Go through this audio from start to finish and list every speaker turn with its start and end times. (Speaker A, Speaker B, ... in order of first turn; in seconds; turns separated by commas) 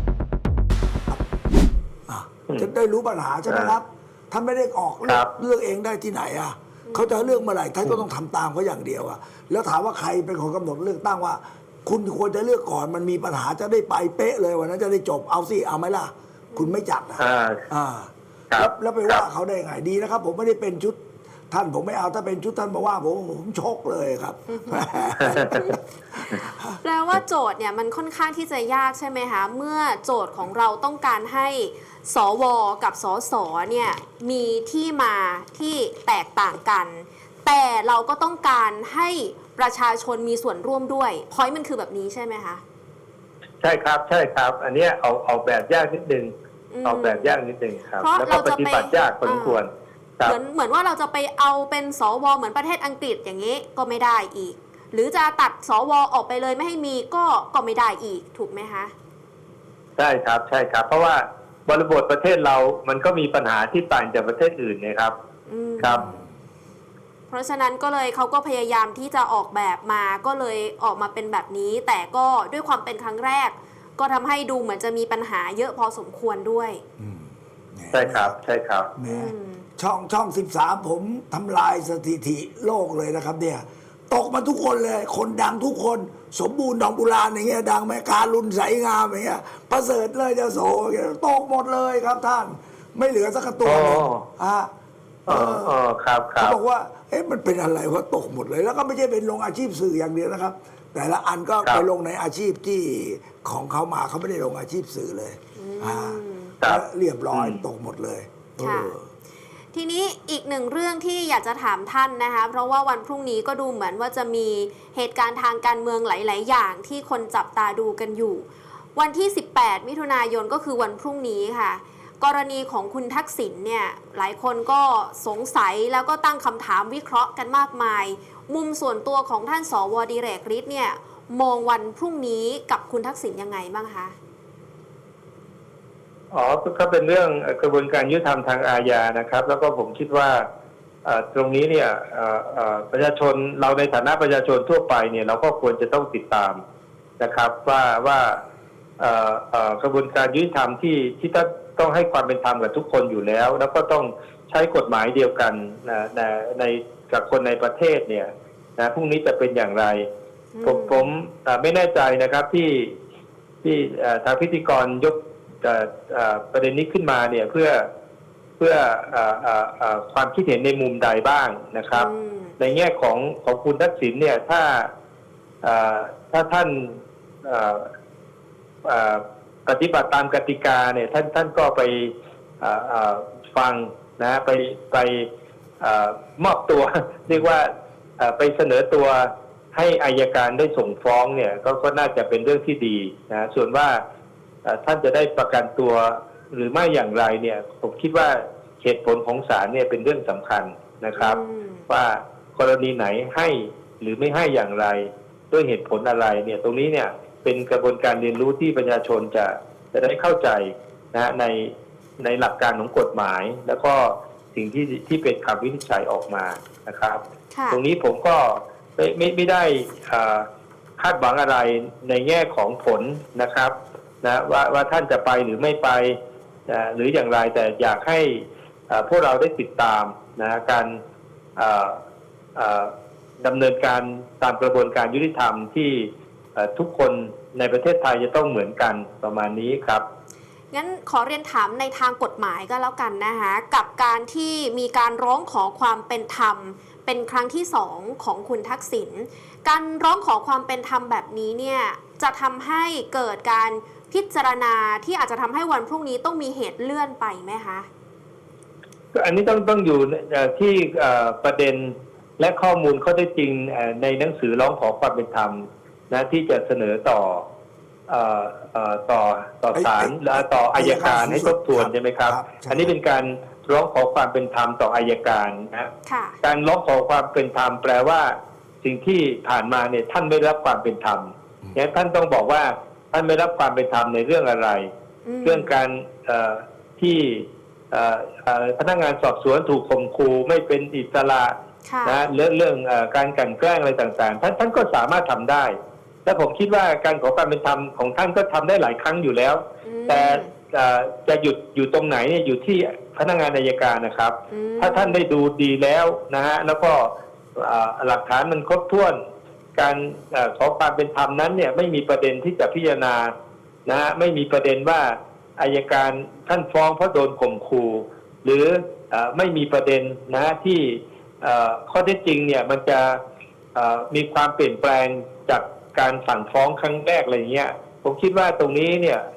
Speaker A: 2.1-21.0, Speaker B: 3.5-3.8, Speaker B: 5.0-5.3, Speaker C: 6.9-7.5, Speaker C: 16.5-16.8, Speaker B: 17.2-17.6, Speaker B: 18.5-19.2, Speaker A: 21.5-26.8, Speaker C: 24.5-25.8, Speaker B: 25.2-25.7, Speaker C: 26.8-42.6, Speaker B: 43.6-46.3, Speaker C: 46.7-47.4, Speaker B: 46.9-50.4, Speaker C: 48.0-49.6, Speaker C: 50.2-58.9, Speaker B: 60.0-65.2, Speaker C: 65.5-66.2, Speaker C: 67.3-76.8, Speaker A: 77.0-78.4, Speaker B: 77.9-78.9, Speaker A: 79.0-94.7, Speaker C: 79.1-79.7, Speaker B: 93.6-94.3, Speaker A: 95.3-95.8, Speaker B: 95.3-96.6, Speaker A: 96.4-109.1, Speaker C: 105.6-106.5, Speaker B: 106.6-107.6, Speaker C: 108.6-108.9, Speaker C: 109.7-134.2, Speaker B: 136.3-140.5, Speaker B: 141.1-146.6, Speaker B: 147.2-148.4, Speaker B: 149.0-160.1, Speaker C: 160.5-161.1, Speaker B: 160.6-163.0, Speaker B: 163.6-167.9, Speaker B: 168.6-174.9, Speaker C: 171.9-172.6, Speaker B: 175.6-177.9, Speaker B: 178.8-185.3, Speaker B: 185.8-194.0, Speaker B: 194.7-220.5, Speaker C: 201.2-201.9, Speaker C: 217.5-217.8, Speaker B: 221.0-226.2, Speaker B: 226.7-231.0, Speaker B: 231.6-232.0, Speaker B: 232.6-240.0, Speaker C: 240.7-257.9, Speaker B: 259.1-267.4, Speaker B: 268.1-275.9, Speaker A: 269.7-272.9, Speaker C: 276.1-276.4, Speaker B: 276.4-284.9, Speaker C: 285.2-285.8, Speaker B: 285.4-309.2, Speaker C: 291.9-292.3, Speaker C: 299.9-300.5, Speaker C: 304.5-305.2, Speaker B: 309.8-313.3, Speaker B: 313.9-323.2, Speaker B: 323.8-329.2